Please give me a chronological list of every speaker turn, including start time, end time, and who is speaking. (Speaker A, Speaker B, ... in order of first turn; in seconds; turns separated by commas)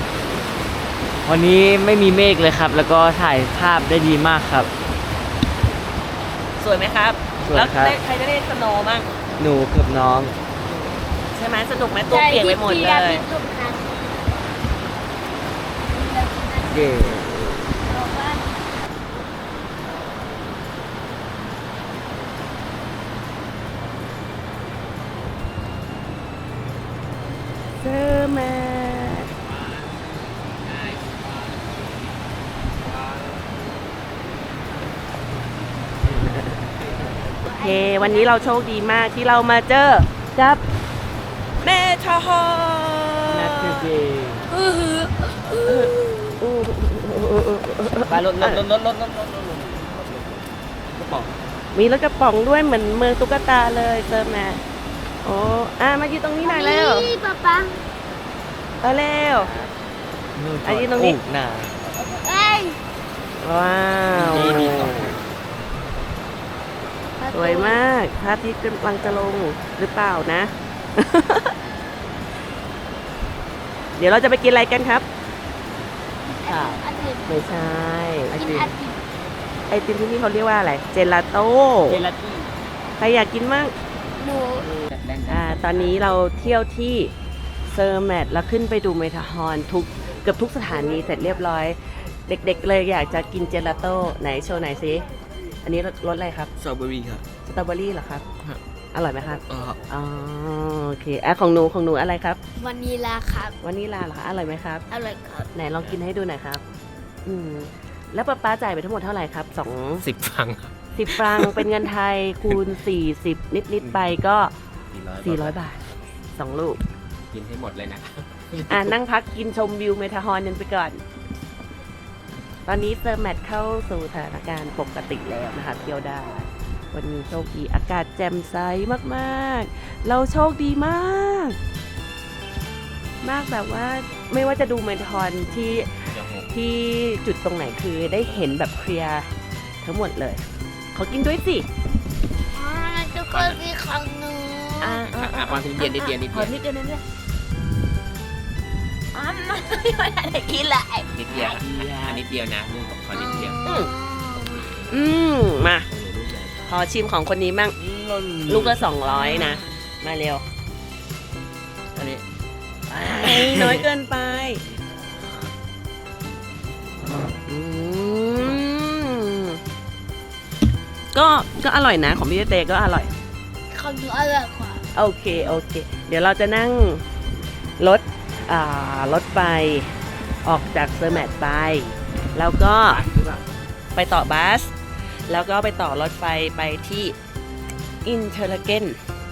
Speaker A: 1.2-4.7, Speaker B: 6.6-9.1, Speaker A: 7.4-8.0, Speaker A: 9.4-10.3, Speaker B: 11.3-13.2, Speaker C: 12.1-14.1, Speaker C: 15.9-17.1, Speaker A: 16.7-17.7, Speaker C: 17.8-18.7, Speaker B: 27.8-29.3, Speaker D: 29.3-30.0, Speaker D: 30.6-32.0, Speaker D: 32.8-33.4, Speaker B: 36.0-36.8, Speaker C: 37.4-38.6, Speaker B: 37.6-40.6, Speaker B: 41.6-43.9, Speaker A: 43.3-44.4, Speaker C: 44.5-45.5, Speaker B: 45.6-48.6, Speaker A: 48.0-51.3, Speaker B: 51.7-54.6, Speaker B: 55.2-57.1, Speaker C: 56.4-57.8, Speaker B: 58.8-59.5, Speaker D: 59.4-59.7, Speaker A: 60.3-61.7, Speaker B: 60.6-61.2, Speaker C: 61.9-62.8, Speaker B: 63.4-65.2, Speaker A: 64.1-65.2, Speaker C: 67.2-67.8, Speaker B: 67.3-71.5, Speaker B: 74.0-75.0, Speaker C: 76.2-77.6, Speaker A: 76.5-76.8, Speaker B: 77.3-78.4, Speaker A: 78.3-78.7, Speaker C: 78.3-79.0, Speaker B: 79.7-82.0, Speaker A: 81.8-82.5, Speaker B: 83.0-83.7, Speaker C: 84.2-84.7, Speaker A: 84.6-86.1, Speaker B: 85.3-87.1, Speaker B: 87.7-95.0, Speaker B: 95.6-96.5, Speaker A: 96.6-97.2, Speaker B: 97.4-98.2, Speaker B: 98.9-102.4, Speaker A: 99.4-99.8, Speaker C: 102.5-103.6, Speaker B: 103.6-104.8, Speaker C: 104.9-105.5, Speaker B: 105.5-106.6, Speaker B: 107.2-110.0, Speaker D: 110.0-111.7, Speaker B: 111.0-114.5, Speaker D: 113.8-114.1, Speaker D: 114.9-116.0, Speaker B: 115.2-115.8, Speaker B: 116.3-116.8, Speaker D: 117.3-118.9, Speaker B: 118.7-121.0, Speaker B: 122.7-131.6, Speaker B: 133.2-139.3, Speaker D: 135.1-136.5, Speaker D: 138.2-138.5, Speaker B: 139.8-141.7, Speaker C: 142.5-145.1, Speaker D: 143.3-143.6, Speaker B: 144.8-147.0, Speaker D: 145.1-146.6, Speaker C: 149.6-151.6, Speaker D: 151.1-153.6, Speaker A: 151.7-152.1, Speaker C: 153.1-154.8, Speaker B: 153.6-153.9, Speaker D: 154.5-154.8, Speaker B: 154.9-155.9, Speaker D: 155.9-156.8, Speaker B: 156.7-157.8, Speaker A: 157.8-159.6, Speaker B: 158.5-160.4, Speaker A: 161.9-162.2, Speaker B: 162.9-164.6, Speaker A: 163.1-163.8, Speaker B: 167.4-169.6, Speaker B: 171.1-173.1, Speaker C: 173.7-174.9, Speaker B: 174.9-177.0, Speaker B: 177.8-183.0, Speaker D: 182.8-183.5, Speaker B: 183.9-184.7, Speaker B: 185.3-187.2, Speaker B: 188.0-189.0